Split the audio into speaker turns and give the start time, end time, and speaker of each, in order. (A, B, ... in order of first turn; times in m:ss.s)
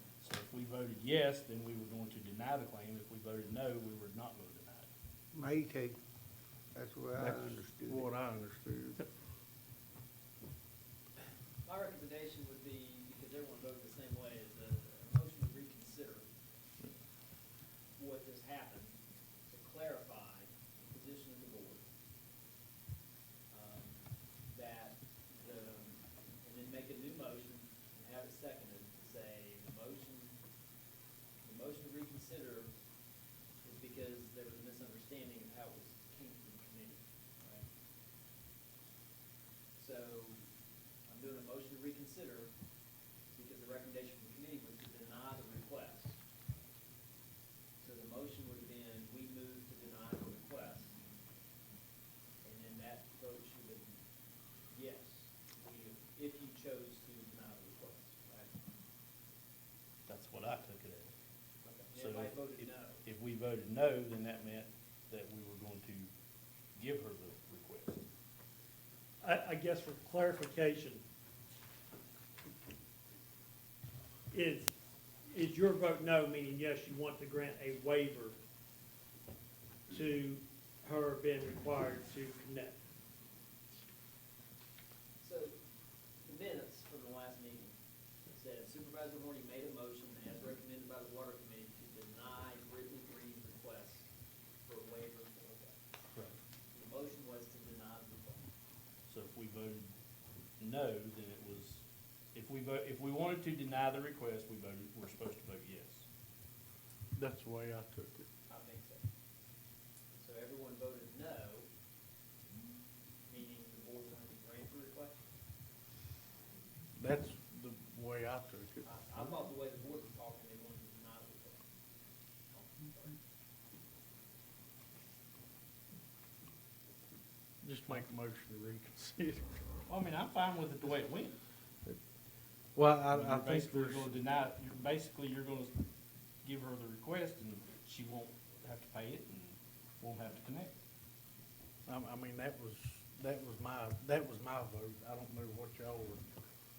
0:00.2-0:04.9 A
0:05.3-0:06.0 B
0:06.7-0:08.1 B
0:07.2-0:09.1 C
0:11.6-0:16.3 D
0:18.0-0:21.8 D
0:23.5-0:30.4 D
0:31.4-0:32.7 D
0:33.6-0:37.7 D
0:39.8-0:40.5 D
0:41.1-0:42.5 D
0:43.3-0:46.2 D
0:47.8-0:51.0 D
0:52.4-0:54.0 D
0:54.7-0:58.6 D
1:00.1-1:01.1 A
1:01.6-1:03.0 D
1:01.9-1:06.1 A
1:06.8-1:08.0 A
1:09.2-1:11.0 E
1:14.3-1:14.7 E
1:15.3-1:18.4 E
1:19.9-1:22.8 E
1:25.2-1:25.6 D
1:26.2-1:27.8 D
1:28.3-1:34.1 D
1:34.7-1:35.8 D
1:36.7-1:38.5 D
1:39.1-1:39.9 A
1:40.6-1:46.1 A
1:47.2-1:48.3 C
1:48.5-1:49.1 D
1:50.1-1:51.7 D
1:53.3-1:55.3 D
1:57.0-1:58.9 C
1:58.8-2:01.6 D
2:02.5-2:03.2 D
2:07.6-2:09.5 C
2:09.9-2:11.4 A
2:12.8-2:14.1 C
2:13.1-2:15.8 A
2:16.4-2:20.7 A
2:21.9-2:26.3 C